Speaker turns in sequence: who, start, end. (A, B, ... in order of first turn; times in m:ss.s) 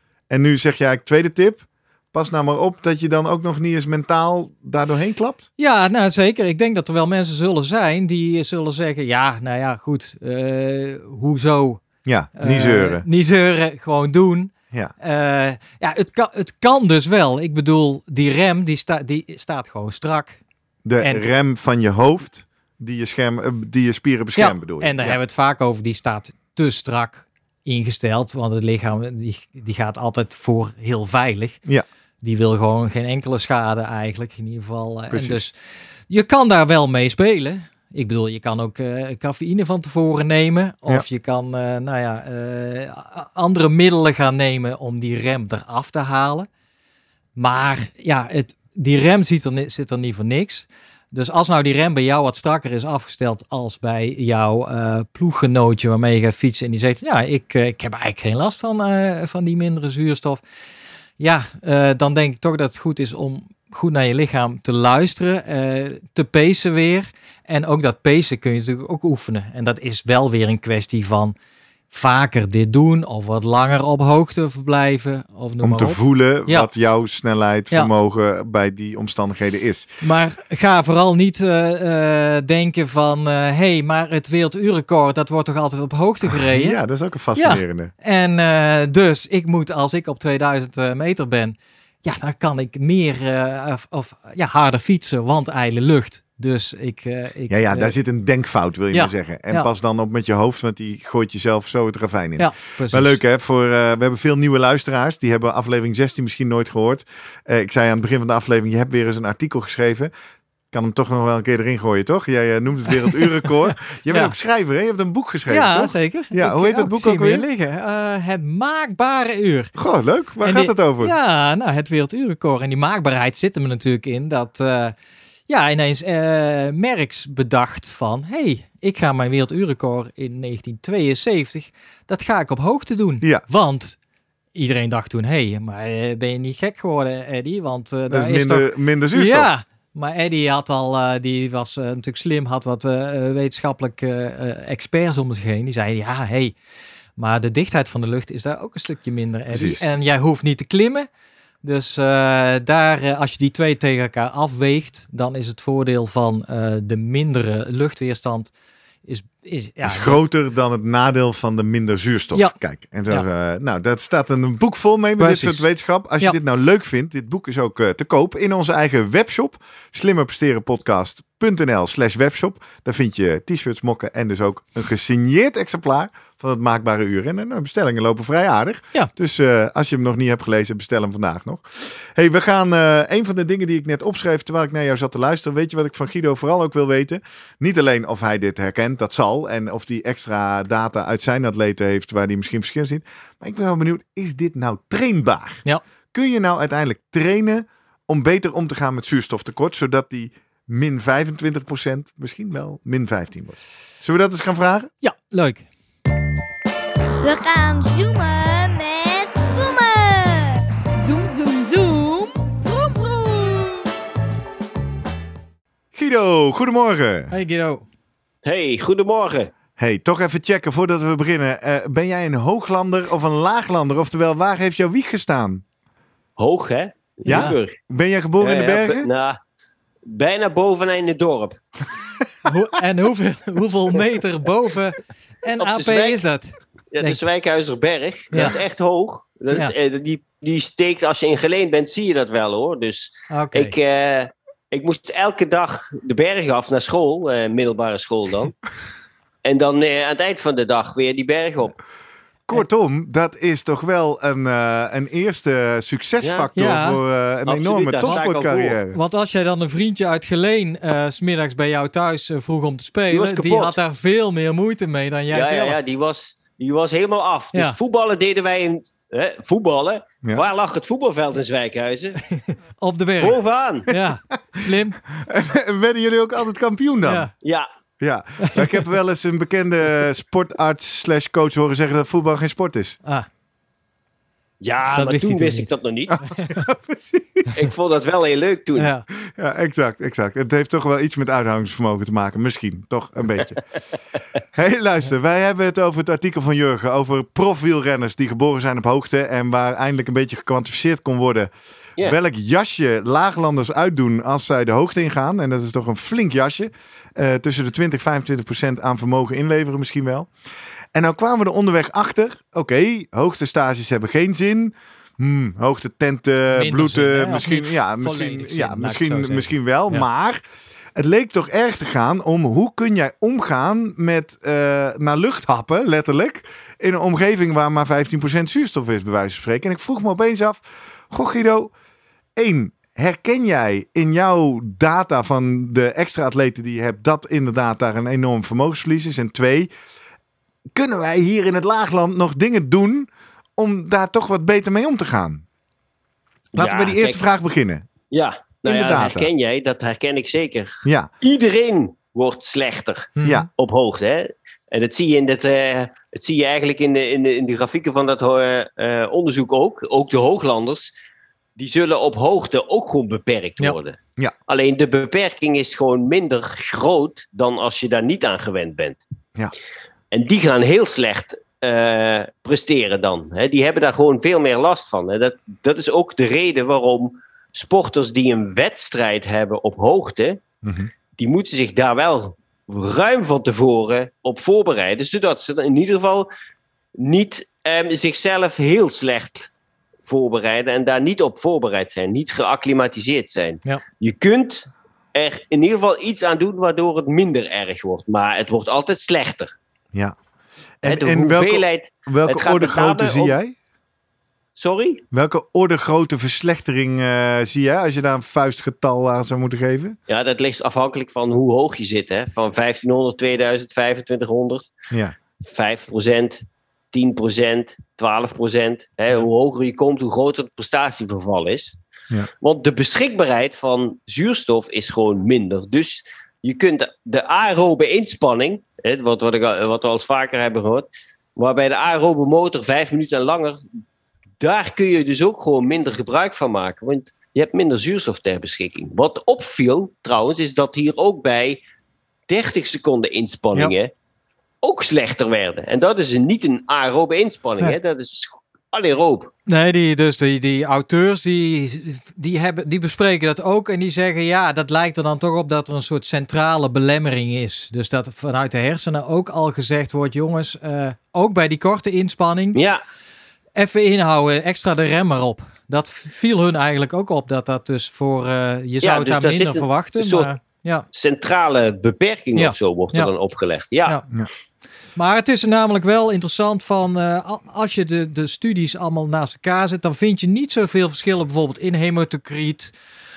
0:00.3-0:05.4 A
0:05.6-0:11.8 B
0:12.0-0:13.0 A
0:12.4-0:20.4 B
0:20.8-0:25.2 A
0:24.4-0:31.6 B
0:32.2-0:35.5 B
0:35.1-0:35.4 A
0:36.1-0:46.5 B
0:47.4-1:00.4 B
1:01.2-1:11.3 B
1:11.9-1:16.7 B
1:15.6-1:19.9 A
1:20.0-1:26.8 B
1:26.2-1:27.9 A
1:27.3-1:37.9 B
1:37.5-1:50.1 A
1:38.9-1:39.7 B
1:42.4-1:43.2 B
1:50.7-1:57.4 A
1:55.5-1:59.7 B
1:59.7-2:01.1 A
2:00.4-2:04.9 B
2:05.5-2:14.0 B
2:14.5-2:26.5 B
2:18.1-2:19.5 A
2:27.2-2:31.1 B
2:29.5-2:29.9 A
2:31.6-2:38.5 B
2:39.0-2:40.2 B
2:39.8-3:24.9 A
2:45.2-2:45.6 B
3:25.0-3:25.6 B
3:27.2-3:30.6 C
3:31.0-3:33.9 D
3:35.9-3:37.3 A
3:37.3-3:37.8 B
3:38.4-3:39.5 E
3:39.8-3:45.6 A
3:46.4-3:47.7 E
3:47.2-3:47.6 B
3:47.2-3:49.1 A
3:48.4-3:49.4 E
3:50.1-3:51.6 E
3:52.4-3:57.2 B
3:55.6-3:56.2 E
3:56.9-4:08.5 E
3:58.3-3:58.6 B
4:03.3-4:03.7 B
4:09.4-4:11.7 E
4:12.5-4:19.0 A
4:16.2-4:16.5 E
4:16.5-4:17.0 B
4:17.5-4:18.8 E
4:18.9-4:25.8 B
4:23.1-4:23.7 E
4:25.3-4:32.2 E
4:32.3-4:35.0 B
4:33.2-4:33.9 E
4:35.1-4:37.3 A
4:37.0-4:37.3 B
4:37.4-4:37.7 E
4:38.0-4:43.0 A
4:38.4-4:38.7 B
4:44.6-4:46.2 E
4:44.9-4:45.7 B
4:46.2-4:46.6 B
4:46.4-4:47.5 A
4:47.5-4:48.9 E
4:48.7-4:49.1 B
4:49.1-4:53.6 A
4:54.5-5:10.3 A
5:10.9-5:20.4 A
5:16.5-5:20.0 B
5:20.9-5:31.7 A
5:32.4-5:39.7 A
5:40.7-5:45.4 A
5:46.5-5:47.8 A
5:46.6-5:47.2 E
5:48.1-6:00.9 E
5:48.6-5:49.3 A
5:50.8-5:51.1 A
5:53.2-5:53.4 B
5:53.2-5:53.5 A
6:01.6-6:04.0 E
6:04.5-6:09.0 E
6:10.1-6:20.4 E
6:20.6-6:20.9 A
6:21.2-6:26.3 E
6:27.0-6:29.5 E
6:30.1-6:39.5 E
6:40.8-6:43.5 A
6:40.8-6:43.3 E
6:44.6-6:45.0 E
6:45.1-6:50.0 A
6:50.1-6:54.7 E
6:55.4-7:01.8 E
7:02.4-7:13.6 E
7:14.4-7:21.6 E
7:22.3-7:23.9 E
7:24.6-7:29.3 E
7:29.5-7:42.6 B
7:42.5-7:42.8 E
7:43.6-7:50.8 B
7:48.8-7:50.3 E
7:50.9-7:54.0 E
7:52.3-7:53.1 B
7:55.0-8:02.7 B